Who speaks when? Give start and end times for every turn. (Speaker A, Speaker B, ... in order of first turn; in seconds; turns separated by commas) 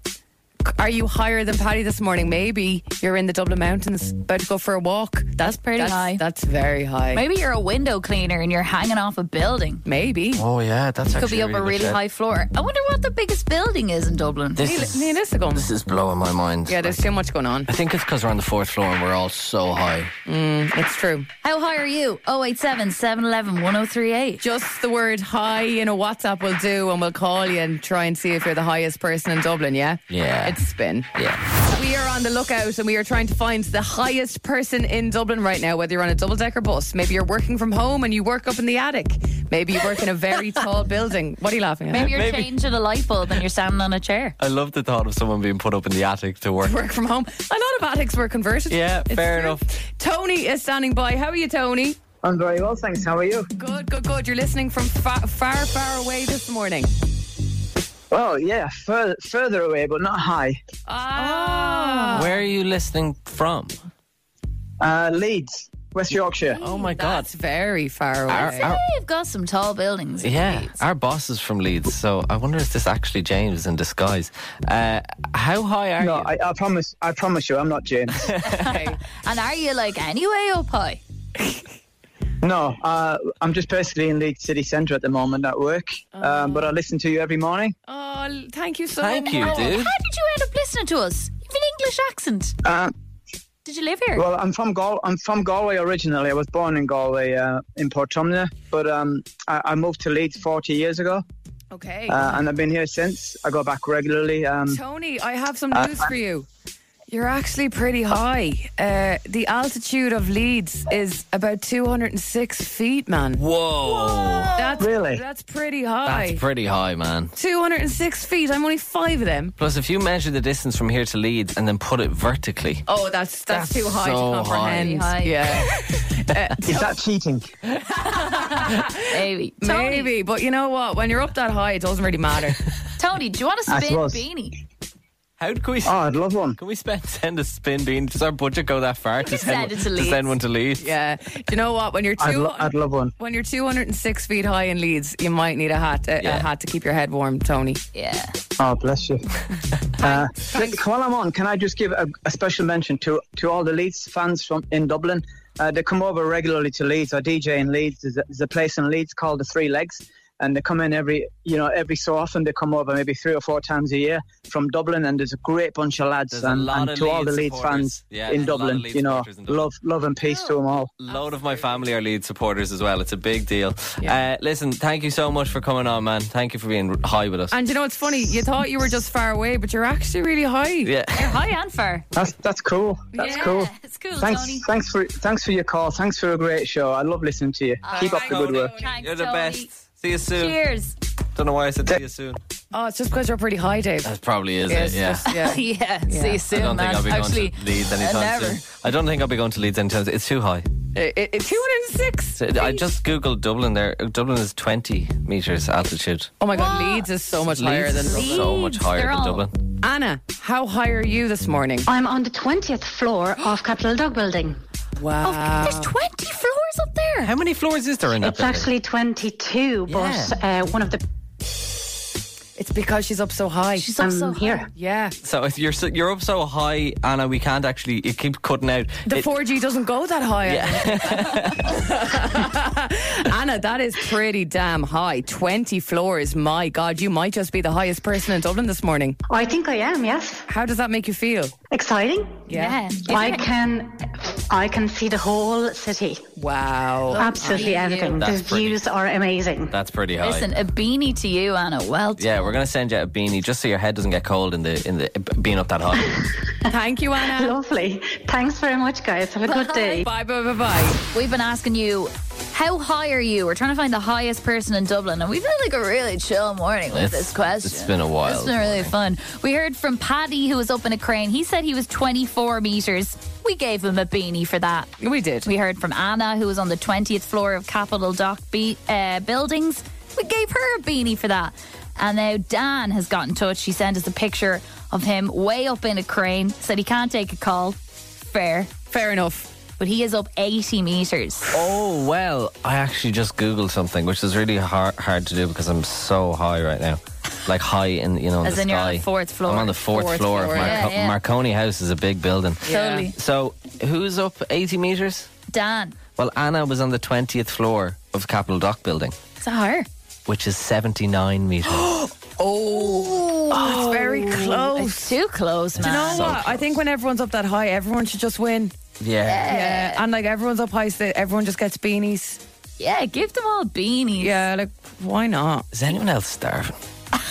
Speaker A: 0.7-7.2, Speaker B: 5.8-6.2, Speaker B: 7.1-9.8, Speaker A: 9.8-10.4, Speaker C: 10.3-12.0, Speaker B: 11.1-14.7, Speaker C: 14.6-17.0, Speaker A: 14.6-15.7, Speaker A: 16.7-17.7, Speaker C: 17.7-20.1, Speaker A: 20.2-21.3, Speaker B: 21.4-24.4, Speaker A: 24.4-31.1, Speaker C: 30.1-30.6, Speaker C: 31.1-31.4, Speaker A: 31.6-42.1, Speaker B: 41.9-44.4, Speaker C: 41.9-42.5, Speaker C: 44.4-46.8, Speaker A: 46.6-52.0, Speaker C: 48.7-49.7, Speaker D: 52.2-53.5, Speaker A: 53.6-56.9, Speaker D: 58.1-60.5, Speaker A: 60.9-62.4, Speaker B: 61.1-62.3, Speaker C: 62.1-63.7, Speaker D: 64.8-66.6, Speaker A: 66.4-68.8, Speaker C: 66.6-67.3, Speaker C: 68.3-68.8, Speaker B: 68.3-70.8, Speaker C: 70.2-76.3, Speaker D: 76.0-78.3, Speaker C: 78.2-78.5, Speaker B: 78.4-81.0, Speaker A: 78.6-79.0, Speaker D: 82.4-87.7, Speaker A: 86.1-86.7, Speaker A: 87.8-89.8, Speaker C: 89.0-89.9, Speaker B: 89.2-92.5, Speaker D: 92.6-92.9, Speaker B: 93.6-94.2, Speaker D: 94.1-101.2, Speaker A: 101.7-102.4, Speaker D: 102.0-104.8, Speaker A: 104.7-106.5, Speaker D: 105.7-106.1, Speaker A: 107.1-116.4, Speaker C: 113.3-114.6, Speaker D: 114.8-115.2, Speaker C: 116.0-117.3, Speaker A: 117.3-119.5, Speaker C: 119.6-122.8, Speaker A: 122.9-127.0, Speaker C: 123.5-125.0, Speaker B: 124.8-125.7, Speaker D: 126.6-127.5, Speaker A: 127.7-132.6, Speaker B: 128.3-130.1, Speaker B: 133.0-134.6, Speaker D: 133.7-134.2, Speaker C: 135.4-136.0, Speaker D: 135.8-136.6, Speaker C: 136.6-140.9, Speaker B: 139.2-140.3, Speaker A: 140.8-147.8, Speaker D: 142.2-143.1, Speaker C: 146.2-146.5, Speaker B: 147.9-148.4, Speaker D: 148.6-149.3, Speaker D: 150.0-170.9, Speaker A: 150.0-150.8, Speaker C: 166.3-169.7, Speaker A: 170.2-171.9, Speaker C: 171.0-177.6, Speaker A: 177.5-180.9, Speaker C: 180.8-181.3, Speaker B: 181.1-182.0, Speaker D: 182.1-188.8, Speaker B: 183.2-184.7, Speaker A: 183.2-183.5, Speaker B: 187.8-189.7, Speaker C: 188.0-190.6, Speaker B: 190.3-190.9, Speaker C: 191.3-192.4, Speaker A: 192.7-194.1, Speaker C: 194.0-195.3, Speaker A: 194.7-196.5, Speaker B: 195.3-198.7, Speaker C: 196.5-200.7, Speaker A: 200.9-202.5, Speaker C: 202.4-206.3, Speaker B: 202.6-202.8, Speaker A: 206.4-208.5, Speaker B: 206.5-207.1, Speaker C: 207.3-209.5, Speaker B: 208.0-209.5, Speaker A: 209.8-211.8, Speaker E: 211.8-214.6, Speaker A: 214.9-215.9, Speaker B: 215.2-217.3, Speaker C: 217.2-218.7, Speaker E: 218.2-221.0, Speaker C: 219.9-220.3, Speaker A: 222.6-223.9, Speaker B: 223.8-224.7, Speaker E: 223.9-224.7, Speaker A: 224.6-225.2, Speaker C: 225.2-229.3, Speaker A: 229.1-239.2, Speaker C: 230.4-231.8, Speaker E: 239.3-240.4, Speaker A: 240.5-241.5, Speaker E: 241.7-246.2, Speaker A: 242.5-242.8, Speaker B: 242.5-243.5, Speaker A: 246.4-247.8, Speaker E: 247.1-249.7, Speaker B: 247.1-248.2, Speaker C: 248.2-248.8, Speaker C: 249.7-250.5, Speaker B: 250.2-252.6, Speaker C: 252.2-256.3, Speaker A: 256.7-257.6, Speaker E: 257.1-260.1, Speaker B: 259.4-260.0, Speaker A: 259.9-261.0, Speaker B: 261.1-274.9, Speaker C: 266.9-268.9, Speaker A: 275.0-275.5, Speaker B: 275.4-288.7, Speaker A: 288.9-289.5, Speaker B: 289.8-291.4, Speaker C: 291.5-305.3, Speaker B: 298.4-299.8, Speaker A: 299.8-300.9, Speaker B: 300.5-301.2, Speaker A: 302.6-303.1, Speaker B: 302.6-303.1, Speaker B: 305.5-306.0, Speaker C: 306.1-309.1, Speaker A: 309.4-309.9, Speaker C: 310.3-312.1, Speaker A: 311.9-315.2, Speaker B: 312.8-316.3, Speaker C: 313.5-314.2, Speaker C: 315.8-316.8, Speaker A: 315.8-318.7, Speaker C: 319.0-319.5, Speaker B: 319.3-320.0, Speaker A: 319.4-322.4, Speaker B: 322.8-324.4, Speaker A: 324.1-325.7, Speaker C: 325.7-326.8